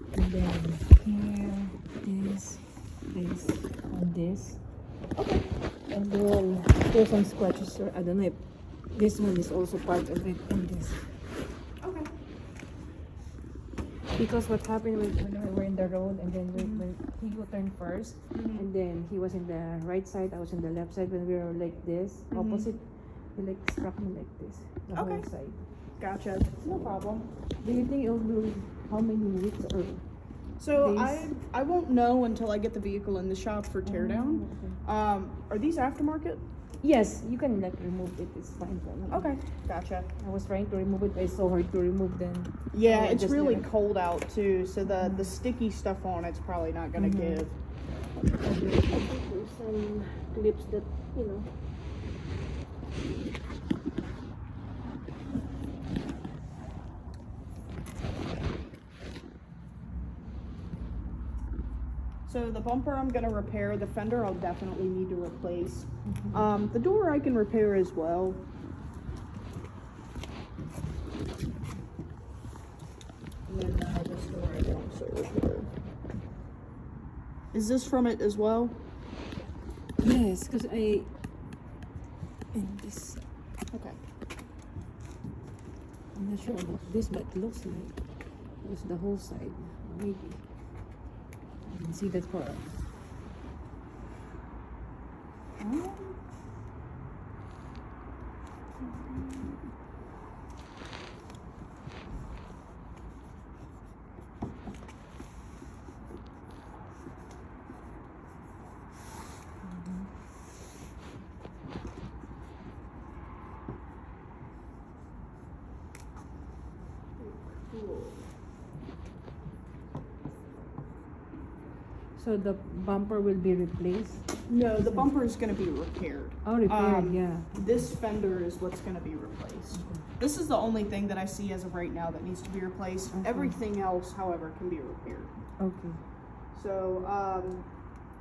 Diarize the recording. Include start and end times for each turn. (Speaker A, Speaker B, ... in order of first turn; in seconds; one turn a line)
Speaker A: 0.1-2.6
Speaker A: 3.1-4.6
Speaker B: 5.2-5.5
Speaker A: 5.9-8.4
Speaker A: 8.9-11.0
Speaker A: 14.2-22.8
Speaker B: 16.6-16.9
Speaker B: 18.3-18.7
Speaker B: 22.3-22.7
Speaker A: 23.4-25.6
Speaker B: 24.9-25.3
Speaker B: 26.0-26.9
Speaker A: 26.7-30.0
Speaker B: 30.6-36.4
Speaker A: 30.7-31.3
Speaker A: 33.9-34.8
Speaker A: 36.8-39.3
Speaker B: 39.1-40.1
Speaker A: 40.2-43.6
Speaker B: 42.7-47.5
Speaker A: 45.0-45.3
Speaker A: 47.0-47.4
Speaker A: 48.4-51.5
Speaker B: 62.3-68.4
Speaker A: 66.1-66.5
Speaker B: 73.5-75.7
Speaker B: 77.5-78.8
Speaker A: 80.0-81.1
Speaker A: 82.5-83.2
Speaker B: 83.7-84.0
Speaker A: 86.2-87.9
Speaker A: 88.6-90.4
Speaker A: 91.7-92.6
Speaker B: 95.6-96.2
Speaker A: 109.7-110.0
Speaker B: 117.2-118.3
Speaker A: 122.2-124.2
Speaker B: 124.5-135.3
Speaker A: 124.8-125.1
Speaker A: 126.5-127.5
Speaker A: 129.8-130.1
Speaker A: 133.1-133.6
Speaker A: 135.6-136.0
Speaker B: 136.5-137.7